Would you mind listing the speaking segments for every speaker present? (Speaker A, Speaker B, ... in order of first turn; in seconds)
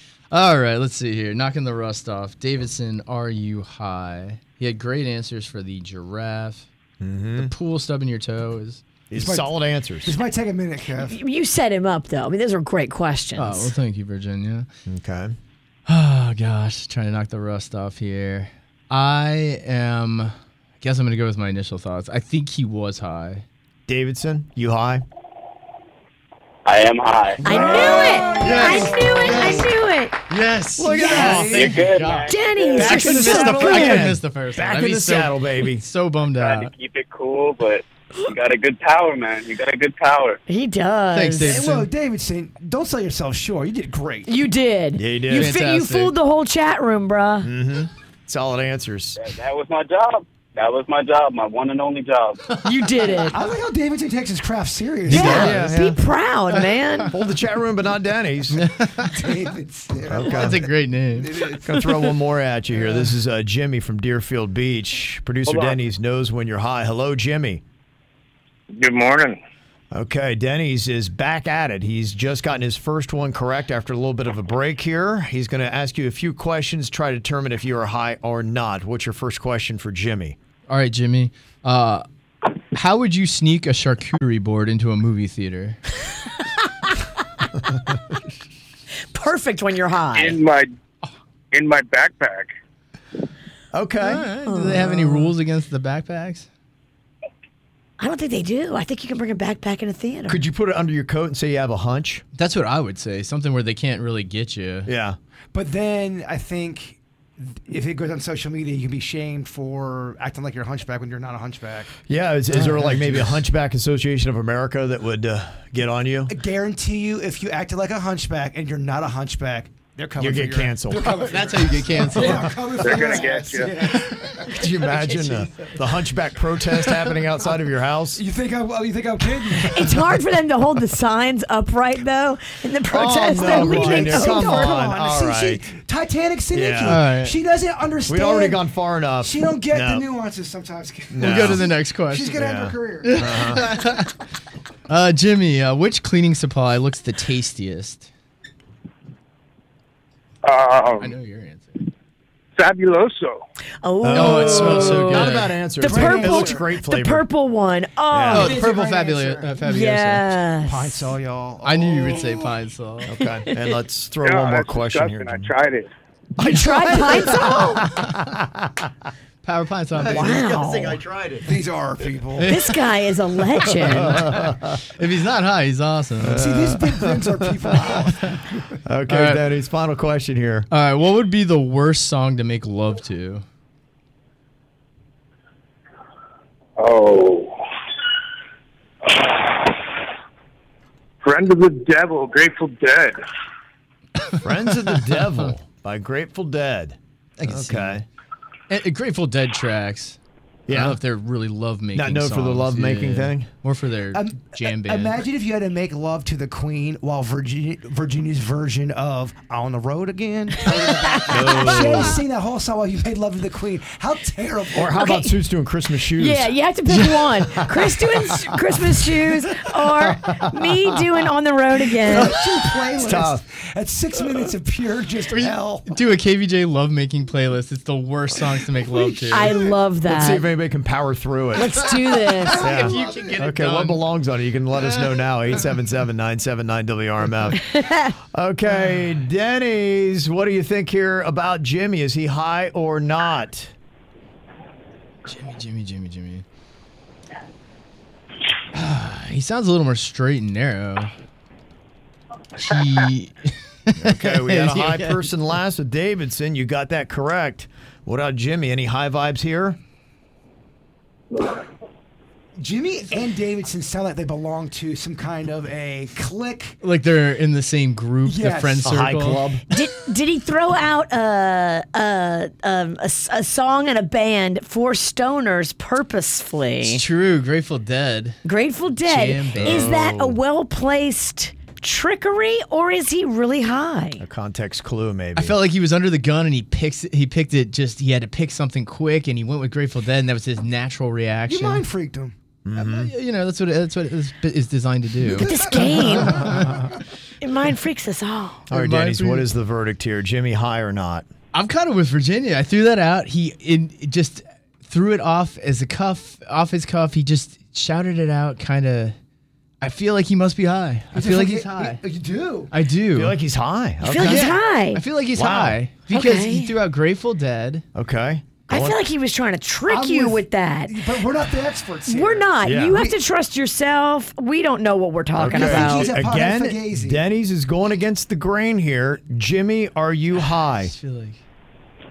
Speaker A: 0.3-6.7, 7.3-8.8, 13.3-14.7, 15.9-23.4, 28.4-29.5, 30.3-32.3, 33.0-36.7, 41.1-41.9, 45.4-46.1, 52.5-53.1, 55.1-55.5, 56.6-57.1, 58.5-59.4, 60.2-61.4, 80.7-82.0, 82.7-85.8, 94.0-96.5, 102.3-104.9, 112.8-113.4, 121.2-122.7, 123.8-125.0, 136.9-137.4, 141.2-142.3, 143.0-144.2, 144.9-148.1, 151.0-151.7, 154.1-155.5, 158.3-160.4, 161.6-163.1, 169.4-170.4, 172.4-172.8, 173.9-176.4, 179.1-179.4, 180.7-183.4, 197.4-198.0, 198.7-200.2, 200.7-205.2, 225.3-229.6, 232.6-234.0, 245.2-246.4, 248.7-251.1, 252.6-255.2, 266.8-269.4, 276.8-278.4, 279.0-279.9, 285.4-291.8, 292.7-296.8, 298.7-299.4, 301.5-309.1, 309.8-312.0, 312.7-313.3, 314.9-317.8, 330.3-331.4
Speaker B: 7.0-7.5, 9.1-10.2, 14.9-15.3, 23.9-25.0, 27.5-29.7, 30.8-31.8, 32.8-35.8, 45.0-45.5, 47.4-49.2, 55.1-56.0, 57.1-58.6, 60.1-60.6, 61.6-67.6, 69.9-80.3, 93.7-94.3, 100.3-102.2, 104.8-105.2, 112.1-116.3, 120.2-121.2, 124.5-128.2, 132.9-135.6, 136.5-137.1, 138.1-140.1, 141.1-141.7, 142.3-143.6, 154.0-157.2, 158.1-158.5, 163.1-165.5, 166.4-168.5, 169.9-171.6, 173.7-174.8, 176.2-178.0, 178.8-180.7, 194.4-198.0, 200.7-201.0, 201.9-203.5, 211.3-212.2, 214.7-216.5, 217.5-217.8, 223.0-223.4, 230.1-231.8, 232.6-237.7, 238.3-243.7, 254.0-259.8, 268.8-269.6, 279.5-280.4, 284.2-285.6, 292.6-293.1, 298.7-301.3, 313.1-314.6, 315.3-315.8, 317.9-319.0, 322.6-323.0, 325.3-330.9
Speaker C: 9.2-11.2, 28.2-29.6, 30.9-31.8, 41.4-44.3, 53.2-55.6, 59.0-61.8, 62.8-63.1, 105.5-111.9, 116.3-126.0, 128.1-130.1, 133.3-138.7, 139.2-143.5, 155.8-156.7, 158.3-159.6, 160.6-162.3, 171.4-172.5, 176.3-178.8, 204.1-215.0, 222.0-225.9, 228.7-229.8, 232.2-233.5, 262.6-266.8, 268.2-268.9, 291.5-292.3, 295.2-297.0, 311.1-312.7, 319.9-323.1, 325.5-327.2
Speaker D: 11.1-13.8, 27.4-30.2, 32.3-34.1, 40.5-41.6, 44.2-47.5, 52.6-53.4, 55.1-57.1, 89.1-90.4, 94.4-95.3, 98.0-100.4, 129.7-134.7, 153.8-158.6, 159.6-161.1, 166.4-167.9, 170.1-171.0, 172.4-174.3, 210.7-212.1, 214.8-215.4, 216.1-222.3, 229.3-230.5, 231.6-232.7, 237.6-238.1, 269.7-277.0, 278.4-284.2, 295.3-296.6, 297.4-298.6, 314.0-315.0, 316.1-316.7, 318.7-321.0, 322.1-326.1
Speaker E: 26.6-28.0, 31.5-33.0, 36.3-40.4, 49.2-52.4, 65.5-65.8, 68.7-69.4, 90.2-90.7, 91.5-92.5, 122.8-123.7, 150.4-151.1, 152.6-153.4, 164.2-165.9, 186.8-187.6, 189.2-189.7, 191.2-193.2